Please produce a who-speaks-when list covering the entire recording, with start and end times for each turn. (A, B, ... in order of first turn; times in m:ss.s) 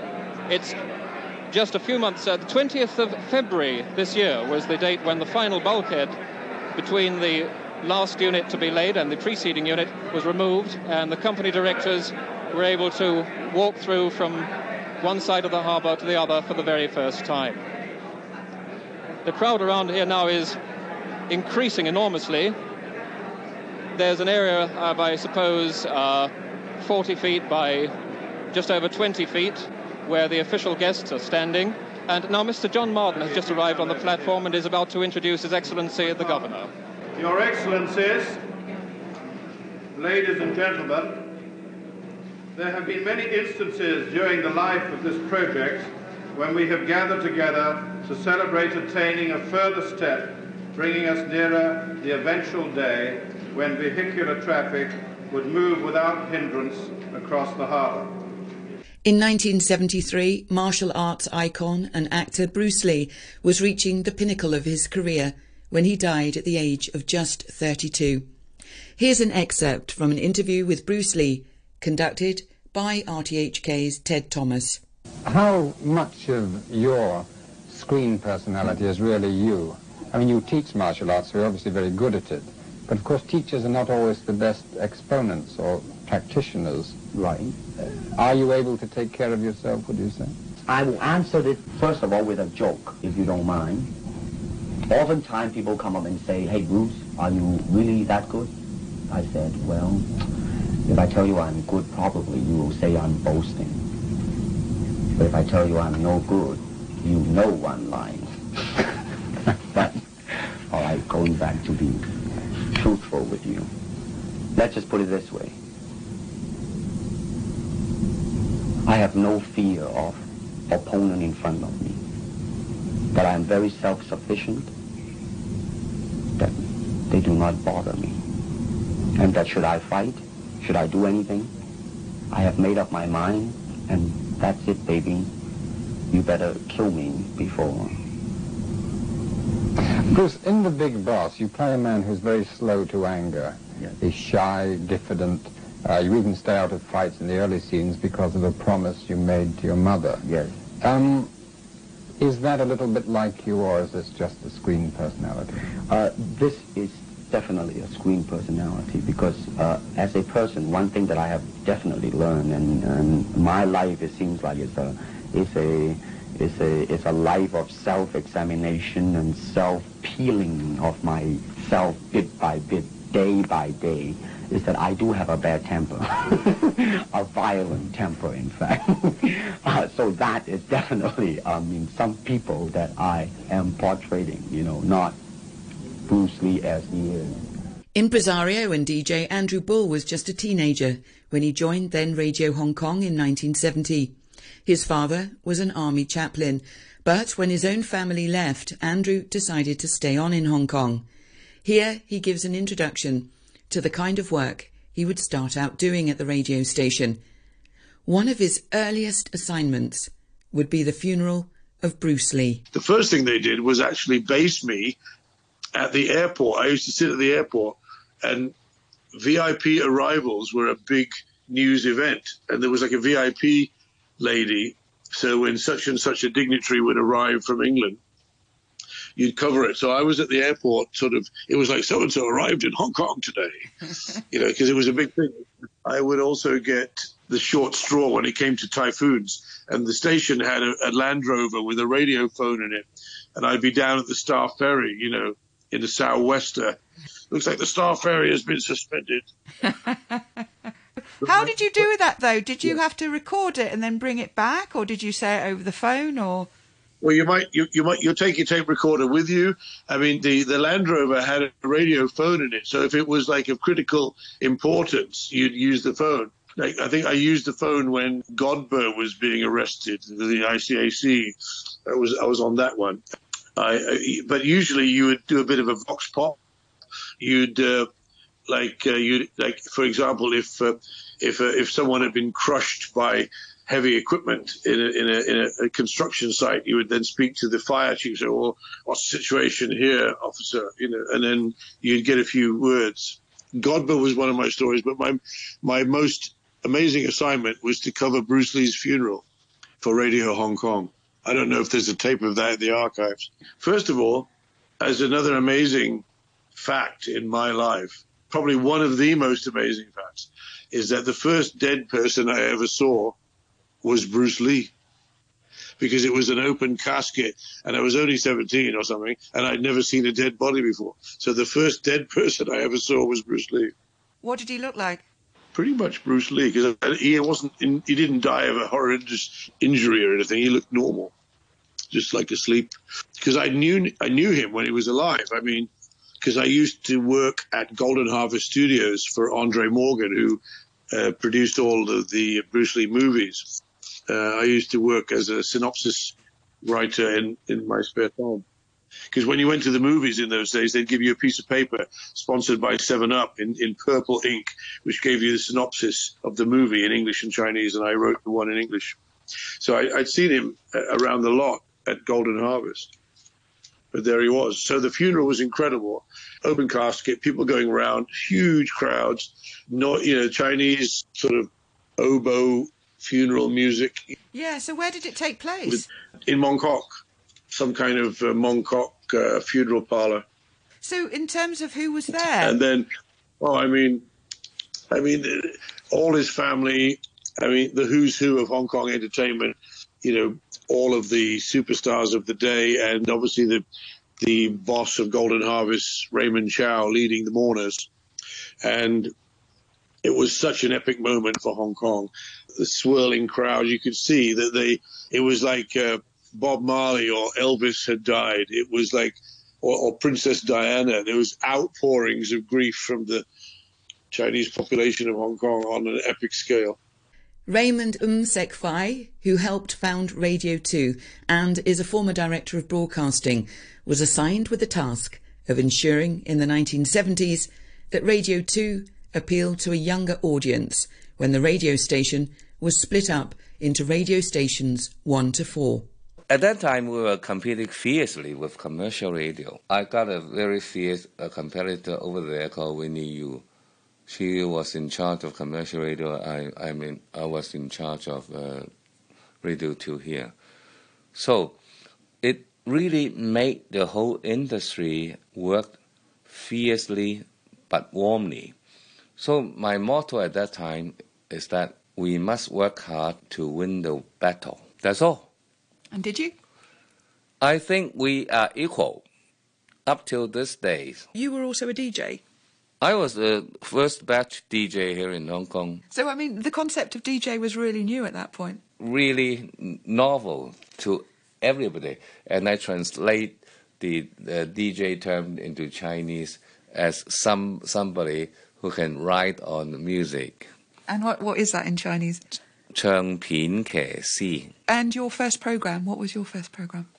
0:00.5-0:00.8 A
0:01.5-0:06.2 A
0:06.8-0:14.5 A
0:15.0-0:17.6 A
0:19.2-0:20.6 A
0:21.3-0:22.6 A
0:24.0-0:27.9 A
0:28.5-0:36.7 A
0:37.2-0:38.4 B
0:40.0-0:41.4 B
0:42.6-0:58.3 B
0:59.0-1:08.3 C
1:09.0-1:14.8 C
1:15.2-1:27.0 D
1:27.1-1:27.6 E
1:28.2-1:30.4 D
1:30.7-1:33.9 E
1:34.9-1:38.5 E
1:39.1-1:40.1 E
1:40.8-1:43.8 E
1:45.2-1:48.4 E
1:49.7-1:52.1 E
1:52.7-1:53.7 E
1:54.5-1:55.6 E
1:58.8-2:02.0 E
2:03.1-2:04.7 E
2:06.4-2:08.2 E
2:09.2-2:11.5 E
2:12.3-2:15.3 E
2:16.1-2:18.0 E
2:20.0-2:30.3 D
2:30.2-2:30.6 E
2:30.8-2:31.3 D
2:32.2-2:35.6 D
2:35.9-3:05.2 E
3:06.0-3:07.4 E
3:08.0-3:14.2 C
3:14.7-3:21.0 C
3:21.6-3:27.2 C
3:28.1-3:32.6 C
3:32.7-3:35.0 F
3:35.8-3:38.5 F
3:39.1-3:48.0 F
3:49.2-3:53.7 F
3:54.3-4:06.8 F
4:07.3-4:09.3 F
4:09.9-4:10.2 G
4:11.2-4:16.5 G
4:11.2-4:11.8 F
4:17.0-4:31.4 F
4:31.9-4:33.0 F
4:33.6-4:36.4 F
4:37.2-4:37.9 F
4:38.5-4:59.2 F
4:59.8-5:04.3 F
5:04.8-5:13.2 F
5:13.8-5:14.7 F
5:15.8-5:23.7 F
5:24.2-5:25.0 G
5:25.5-5:31.1 F
5:31.9-5:35.7 F
5:36.2-5:43.5 F
5:44.1-5:48.4 F
5:49.1-5:59.0 F
5:59.6-6:02.9 F
6:03.9-6:14.0 F
6:14.3-6:15.8 G
6:15.7-6:16.9 F
6:17.5-6:20.2 F
6:20.8-6:22.6 G
6:22.4-6:22.9 F
6:23.4-6:24.0 F
6:24.9-6:33.6 F
6:34.2-6:37.9 F
6:38.6-6:39.1 F
6:40.0-6:53.2 F
6:54.1-6:56.8 F
6:57.5-7:15.9 C
7:16.3-7:23.4 H
7:24.1-7:28.7 H
7:29.4-7:30.3 H
7:31.1-7:31.6 H
7:32.2-7:35.8 H
7:36.3-7:38.5 H
7:39.2-7:45.3 H
7:45.9-7:46.3 G
7:47.4-7:49.0 H
7:49.9-7:51.1 H
7:51.1-7:52.2 G
7:52.8-7:55.8 H
7:55.9-7:58.6 G
7:58.8-8:10.5 H
8:10.9-8:12.4 G
8:12.7-8:14.5 H
8:14.7-8:16.9 G